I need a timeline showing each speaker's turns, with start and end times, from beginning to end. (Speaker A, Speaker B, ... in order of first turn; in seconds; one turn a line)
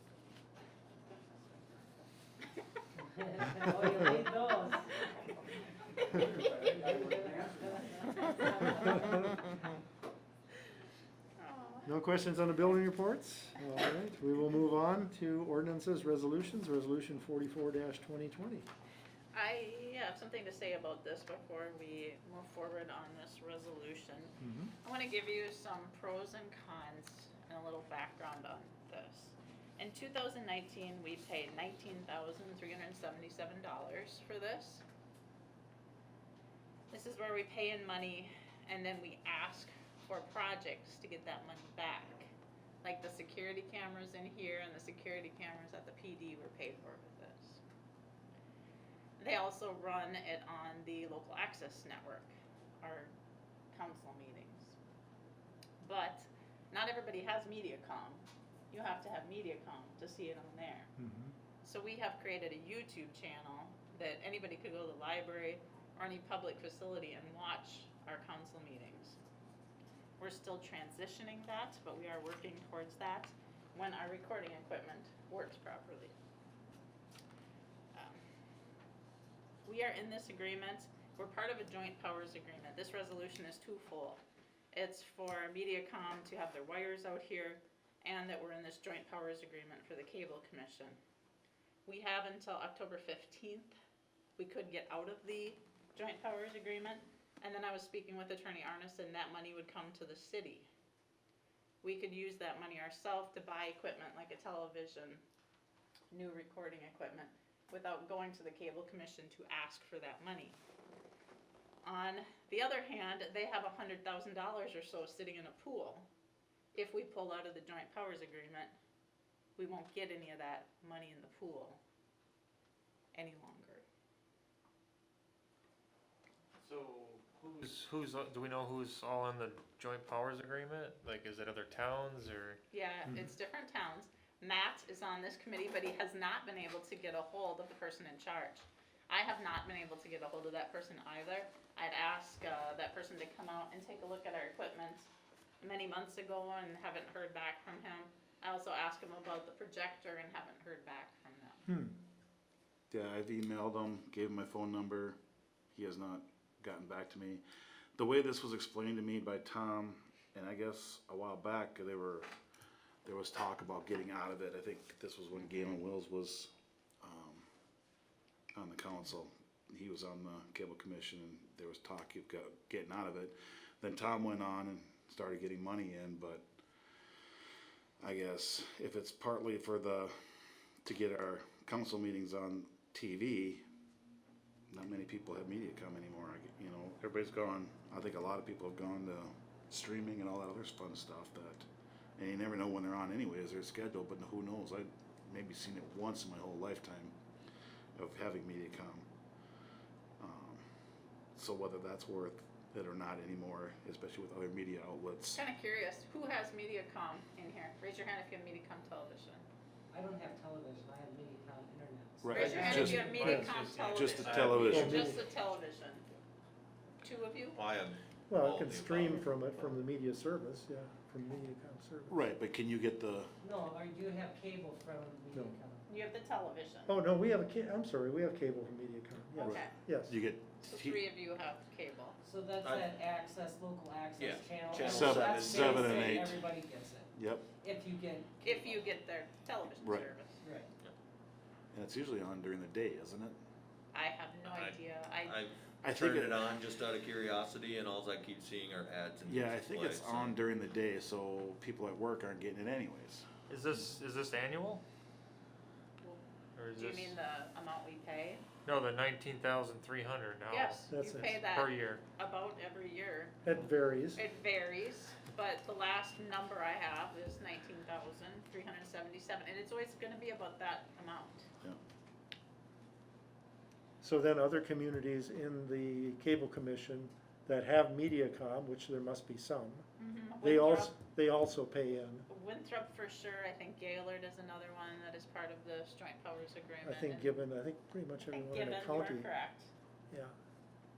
Speaker A: 3.0-5.0
Speaker A: 6.2-9.2
Speaker B: 11.4-11.9
Speaker C: 11.9-18.7
Speaker B: 19.3-34.8
Speaker C: 24.4-24.7
Speaker B: 36.9-42.3
Speaker B: 42.8-47.6
Speaker B: 49.2-53.1
Speaker B: 53.7-54.8
Speaker B: 55.8-60.9
Speaker C: 61.0-61.4
Speaker B: 61.6-69.2
Speaker B: 70.2-76.1
Speaker B: 77.9-78.2
Speaker B: 79.7-84.2
Speaker B: 84.7-91.0
Speaker B: 91.9-93.7
Speaker B: 94.4-100.7
Speaker B: 101.8-105.2
Speaker B: 106.1-110.6
Speaker B: 111.8-116.1
Speaker B: 116.8-118.7
Speaker B: 119.6-121.8
Speaker B: 123.1-123.8
Speaker D: 127.4-132.6
Speaker B: 132.7-145.1
Speaker B: 145.6-151.7
Speaker C: 151.7-151.9
Speaker E: 152.9-155.2
Speaker E: 155.7-157.4
Speaker E: 158.0-162.3
Speaker E: 163.1-167.5
Speaker E: 168.6-176.4
Speaker E: 178.0-180.1
Speaker E: 180.8-183.6
Speaker E: 184.7-191.7
Speaker E: 192.2-197.2
Speaker E: 198.0-199.1
Speaker E: 200.2-200.6
Speaker E: 201.3-205.4
Speaker B: 205.3-209.4
Speaker A: 209.9-213.5
Speaker E: 212.2-215.1
Speaker B: 212.3-216.1
Speaker C: 213.1-213.5
Speaker F: 214.2-214.8
Speaker C: 214.6-215.2
Speaker B: 217.0-217.6
Speaker F: 217.6-219.7
Speaker C: 218.3-222.3
Speaker E: 222.1-223.3
Speaker A: 223.4-225.8
Speaker C: 225.3-225.6
Speaker B: 225.9-226.9
Speaker C: 226.9-230.2
Speaker B: 229.3-229.8
Speaker E: 229.4-231.0
Speaker B: 230.6-232.2
Speaker A: 232.2-238.9
Speaker F: 234.2-235.8
Speaker E: 234.8-236.4
Speaker E: 237.2-237.4
Speaker B: 238.4-240.4
Speaker E: 239.8-240.1
Speaker A: 240.4-240.7
Speaker E: 241.7-243.4
Speaker B: 243.9-245.4
Speaker F: 244.5-250.4
Speaker E: 245.8-246.5
Speaker E: 249.2-253.3
Speaker D: 253.5-254.8
Speaker D: 256.6-257.2
Speaker B: 256.8-258.4
Speaker D: 258.6-262.0
Speaker B: 260.5-263.4
Speaker C: 260.9-261.4
Speaker C: 263.4-264.2
Speaker B: 264.1-271.5
Speaker C: 274.0-279.9
Speaker B: 280.0-281.0
Speaker C: 280.4-282.2
Speaker B: 282.3-287.4
Speaker C: 286.8-289.3
Speaker B: 288.2-289.7